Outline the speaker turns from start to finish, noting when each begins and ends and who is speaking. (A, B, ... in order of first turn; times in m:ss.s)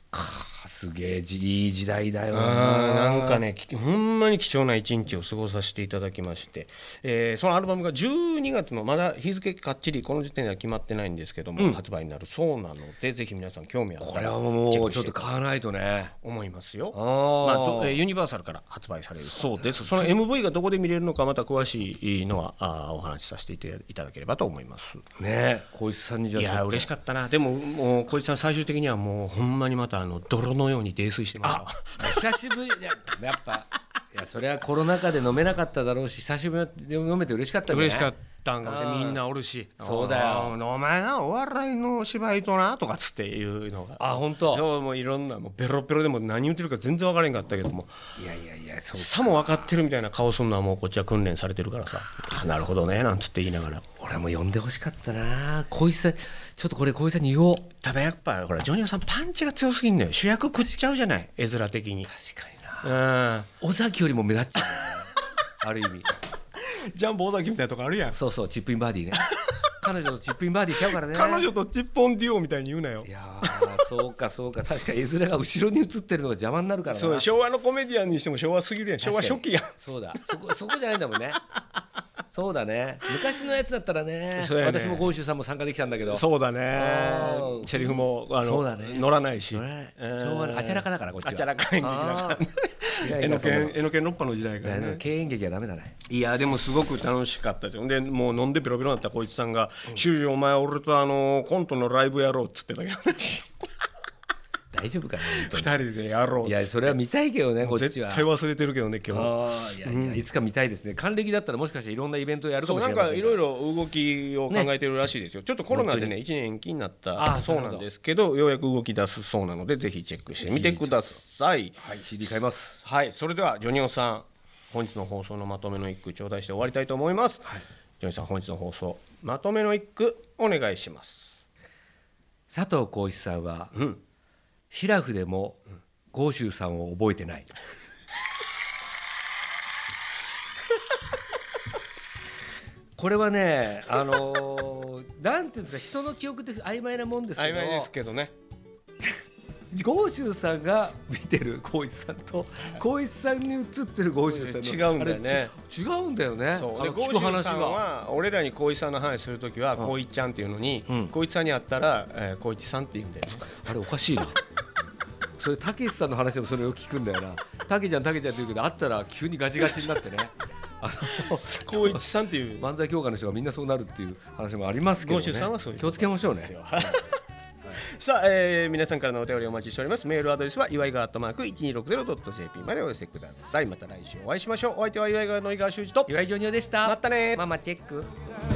0:00.1-0:03.4 A
0:02.3-0:15.3 B
0:14.0-0:16.1 A
0:16.2-0:25.0 B
0:16.9-0:18.0 A
0:19.3-0:20.1 A
0:25.2-0:26.9 A
0:26.4-0:32.2 B
0:31.4-0:38.1 A
0:37.7-0:48.0 B
0:38.6-0:39.2 A
0:39.8-0:40.5 A
0:44.0-0:44.6 A
0:48.2-0:49.7 A
0:49.0-0:53.8 B
0:53.5-0:57.6 A
0:57.8-1:02.1 B
1:02.1-1:03.0 A
1:02.8-1:03.5 B
1:03.6-1:06.1 A
1:06.6-1:08.2 B
1:08.1-1:09.3 A
1:09.3-1:09.6 B
1:09.8-1:11.5 A
1:10.8-1:13.9 B
1:13.0-1:17.2 A
1:16.9-1:20.4 B
1:19.0-1:21.4 A
1:22.3-1:26.2 A
1:24.3-1:25.1 B
1:26.1-1:35.0 B
1:26.7-1:32.4 A
1:33.0-1:33.8 A
1:34.6-1:35.9 A
1:36.1-1:43.5 B
1:44.7-1:45.7 A
1:45.2-1:47.0 B
1:46.4-1:48.3 A
1:47.6-1:50.2 B
1:49.1-1:53.5 A
1:52.6-2:01.8 B
1:55.7-1:56.1 A
1:57.2-1:57.8 A
2:00.4-2:01.2 A
2:01.8-2:02.8 A
2:02.8-2:07.5 B
2:08.0-2:11.3 B
2:12.5-2:13.7 A
2:13.7-2:14.0 B
2:14.7-2:17.5 A
2:23.0-2:27.9 A
2:27.4-2:28.3 B
2:29.7-2:37.8 A
2:34.2-2:35.5 B
2:36.5-2:43.5 B
2:43.6-2:44.4 A
2:45.4-2:52.0 A
2:51.1-2:52.7 B
2:52.6-2:57.1 A
2:55.0-2:57.2 B
2:57.7-3:06.1 B
3:06.1-3:08.1 A
3:06.8-3:07.5 B